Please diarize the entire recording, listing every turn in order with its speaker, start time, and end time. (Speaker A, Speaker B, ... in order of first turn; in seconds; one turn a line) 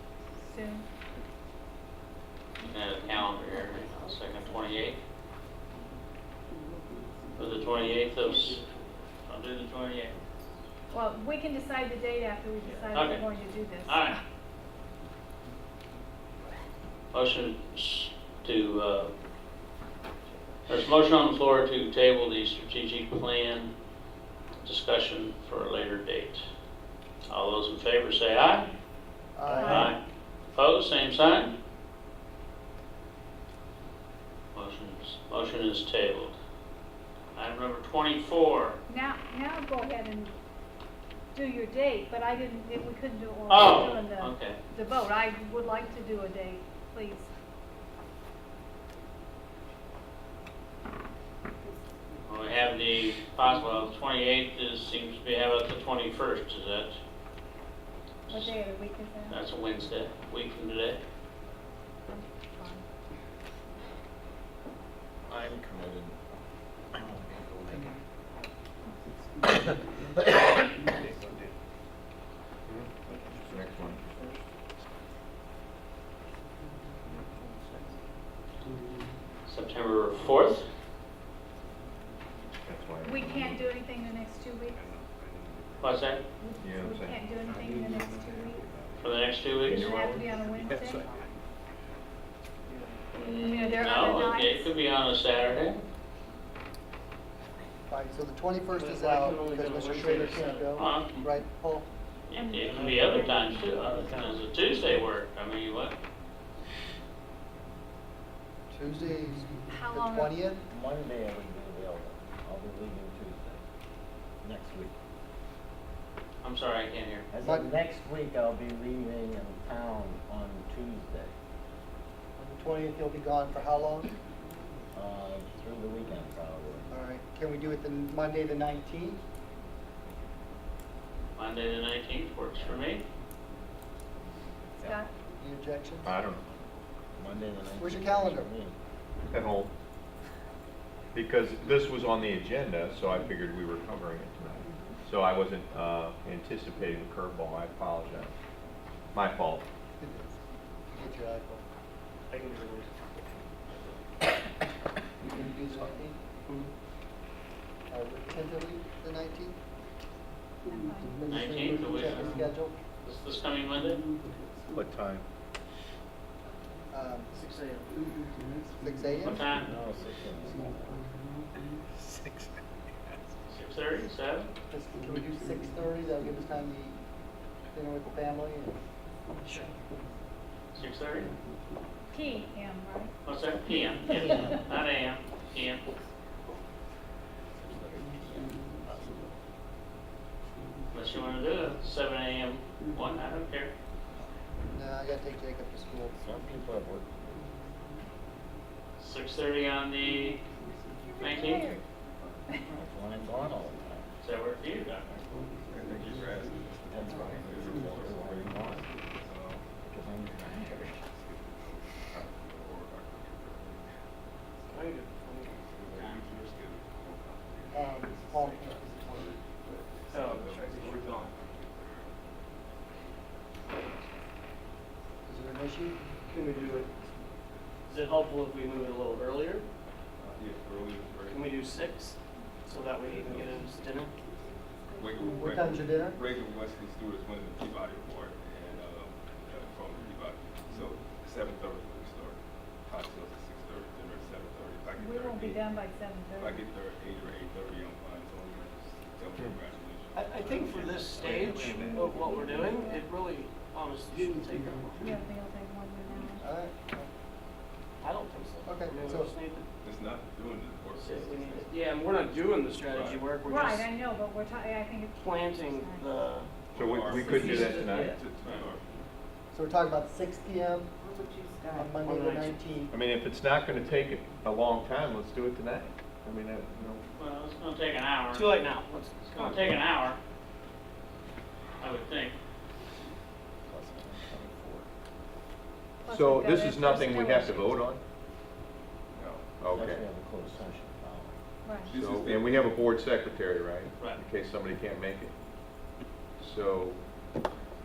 Speaker A: 0.4-0.9
Speaker B: 2.6-5.0
Speaker B: 7.3-8.6
Speaker C: 8.2-8.9
Speaker B: 9.3-10.2
Speaker A: 10.9-14.2
Speaker C: 12.6-12.9
Speaker B: 12.9-13.3
Speaker B: 13.8-14.2
Speaker B: 17.1-19.1
Speaker B: 20.7-23.7
Speaker B: 24.6-26.4
Speaker B: 27.3-28.7
Speaker D: 29.3-29.9
Speaker B: 29.5-30.0
Speaker A: 29.5-29.9
Speaker B: 30.5-31.5
Speaker B: 34.5-36.4
Speaker B: 37.3-38.8
Speaker A: 38.9-40.3
Speaker A: 41.3-47.3
Speaker B: 43.5-44.6
Speaker B: 52.3-57.0
Speaker B: 58.3-58.5
Speaker A: 58.3-59.4
Speaker B: 59.3-61.0
Speaker A: 62.1-62.8
Speaker E: 65.3-66.2
Speaker E: 66.9-68.0
Speaker F: 70.9-71.5
Speaker C: 73.1-74.4
Speaker F: 73.4-74.0
Speaker C: 77.1-78.0
Speaker B: 79.5-80.6
Speaker F: 82.6-83.7
Speaker A: 83.0-84.9
Speaker G: 85.2-85.7
Speaker B: 85.8-86.2
Speaker A: 86.4-88.7
Speaker F: 86.6-87.3
Speaker B: 89.0-90.0
Speaker A: 89.7-91.1
Speaker F: 90.7-91.0
Speaker C: 92.6-93.0
Speaker A: 93.1-94.7
Speaker B: 93.2-95.8
Speaker D: 97.9-101.9
Speaker C: 98.7-100.9
Speaker B: 100.8-101.2
Speaker B: 102.3-106.0
Speaker A: 102.3-104.4
Speaker D: 108.7-110.6
Speaker A: 109.7-110.4
Speaker E: 110.7-113.6
Speaker E: 114.4-114.9
Speaker B: 116.4-117.3
Speaker E: 117.3-121.3
Speaker D: 117.4-117.7
Speaker D: 122.4-124.1
Speaker E: 124.9-127.0
Speaker D: 126.9-129.2
Speaker B: 131.3-133.0
Speaker A: 134.8-135.1
Speaker D: 135.4-136.1
Speaker F: 136.0-136.4
Speaker E: 137.2-138.8
Speaker D: 137.8-138.5
Speaker F: 139.3-139.7
Speaker F: 141.1-148.3
Speaker F: 149.1-149.6
Speaker D: 150.0-150.4
Speaker D: 150.9-151.6
Speaker C: 152.3-153.3
Speaker D: 155.2-156.2
Speaker D: 157.9-159.6
Speaker A: 160.7-161.2
Speaker B: 161.3-162.4
Speaker D: 161.3-162.8
Speaker B: 163.0-164.0
Speaker F: 164.7-165.2
Speaker D: 166.9-167.3
Speaker C: 167.3-167.9
Speaker D: 168.8-169.4
Speaker B: 169.2-169.7
Speaker E: 169.7-171.0
Speaker B: 173.5-174.5
Speaker D: 174.7-177.0
Speaker D: 177.7-178.8
Speaker B: 180.8-181.3
Speaker A: 182.1-183.1
Speaker B: 183.2-185.9
Speaker B: 190.9-193.7
Speaker D: 194.7-196.1
Speaker E: 196.2-197.5
Speaker B: 199.0-200.4
Speaker A: 201.0-201.8
Speaker B: 201.2-201.8
Speaker E: 202.7-204.1
Speaker B: 204.2-205.1
Speaker G: 205.7-209.7
Speaker E: 206.9-208.9
Speaker E: 209.8-211.0
Speaker G: 211.0-213.9
Speaker C: 214.7-216.4
Speaker G: 215.7-224.2
Speaker D: 217.7-219.2
Speaker C: 219.7-221.3
Speaker D: 225.2-226.0
Speaker C: 226.2-226.9
Speaker C: 227.9-229.7
Speaker G: 230.2-231.6
Speaker C: 231.2-234.1
Speaker G: 233.0-233.7
Speaker A: 234.9-235.5
Speaker G: 234.9-245.7
Speaker D: 235.3-236.2
Speaker A: 245.0-246.6
Speaker G: 246.3-251.6
Speaker C: 250.1-255.2
Speaker F: 251.2-252.0
Speaker A: 252.2-253.1
Speaker A: 255.0-256.5
Speaker D: 256.4-257.1
Speaker C: 258.0-259.7
Speaker D: 258.7-259.4
Speaker G: 259.8-263.6
Speaker C: 260.9-263.9
Speaker A: 263.4-266.2
Speaker C: 265.2-266.5
Speaker F: 266.7-268.2
Speaker G: 266.7-269.0
Speaker C: 267.2-268.2
Speaker D: 269.5-270.9
Speaker D: 271.7-272.9
Speaker C: 271.9-272.7
Speaker F: 272.9-277.0
Speaker B: 277.2-278.6
Speaker C: 278.3-279.9
Speaker B: 279.4-280.2
Speaker B: 281.8-282.4
Speaker E: 283.7-284.9
Speaker A: 286.0-287.8
Speaker F: 286.1-288.0
Speaker G: 289.1-289.4
Speaker F: 289.6-290.0
Speaker E: 289.7-291.4
Speaker A: 291.6-291.9
Speaker G: 291.9-292.8
Speaker F: 291.9-295.3
Speaker B: 294.0-294.2
Speaker F: 296.4-297.0